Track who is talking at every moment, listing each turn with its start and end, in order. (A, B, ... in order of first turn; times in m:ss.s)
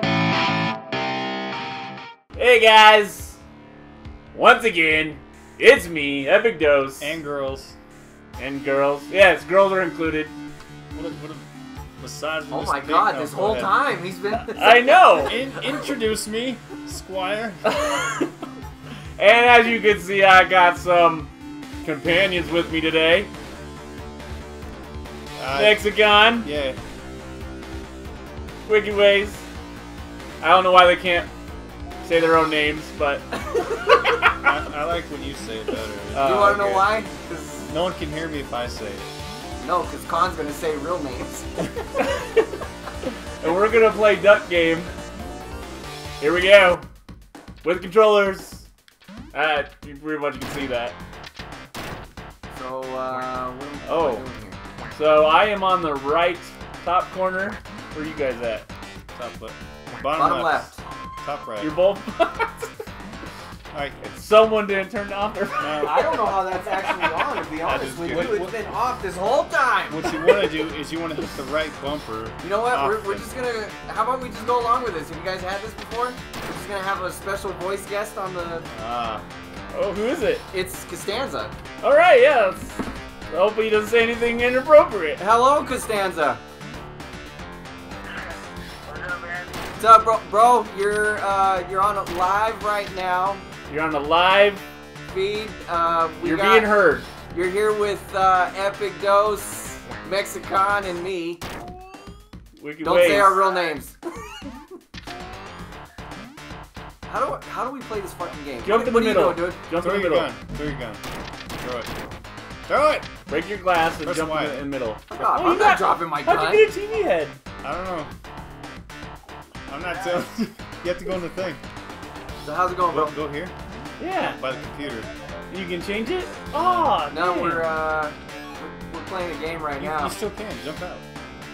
0:02.4-0:03.4 A
0:04.3-0:07.2 A
0:07.0-0:07.8 B
0:08.4-0:10.3 A
0:10.9-0:11.4 B
0:12.0-0:13.8 B
0:12.5-0:15.4 C
0:14.3-0:15.4 A
0:15.2-0:17.6 B
0:17.7-0:18.3 A
0:19.2-0:21.3 A
0:21.8-0:23.3 A
0:25.4-0:26.8 B
0:25.5-0:26.5 A
0:28.6-0:29.4 A
0:30.4-0:31.3 A
0:32.0-0:34.5 A
0:34.4-0:37.0 B
0:36.1-0:36.8 A
0:36.2-0:37.6 C
0:37.6-0:39.1 B
0:39.6-0:41.5 C
0:43.4-0:44.9 A
0:46.2-0:46.9 A
0:47.6-0:48.7 A
0:49.3-0:51.0 A
0:52.5-0:54.6 C
0:53.8-0:54.2 A
0:54.9-0:58.7 A
0:59.1-1:01.8 B
1:00.1-1:00.8 C
1:01.6-1:02.7 A
1:03.7-1:04.0 B
1:04.0-1:08.5 A
1:05.6-1:06.3 B
1:05.8-1:10.1 C
1:07.7-1:08.5 B
1:09.9-1:13.3 B
1:10.0-1:10.7 A
1:12.4-1:18.7 C
1:18.7-1:19.2 B
1:19.7-1:20.5 A
1:20.5-1:21.5 C
1:21.8-1:25.2 A
1:25.2-1:26.4 C
1:29.8-1:33.4 C
1:33.7-1:34.6 A
1:35.1-1:41.4 C
1:36.2-1:37.1 A
1:42.6-1:43.5 A
1:42.8-1:44.0 C
1:47.0-1:49.6 C
1:48.6-1:50.3 A
1:49.7-1:51.0 B
1:51.6-1:51.9 B
1:52.7-1:53.1 B
1:53.3-1:57.4 A
1:54.0-1:54.6 B
1:55.1-1:56.7 C
1:57.6-1:58.1 B
1:59.7-2:01.6 B
2:02.4-2:03.2 C
2:02.9-2:03.5 B
2:04.0-2:04.4 A
2:04.1-2:05.1 B
2:05.5-2:07.8 A
2:06.5-2:07.0 B
2:07.1-2:10.2 C
2:09.8-2:11.1 B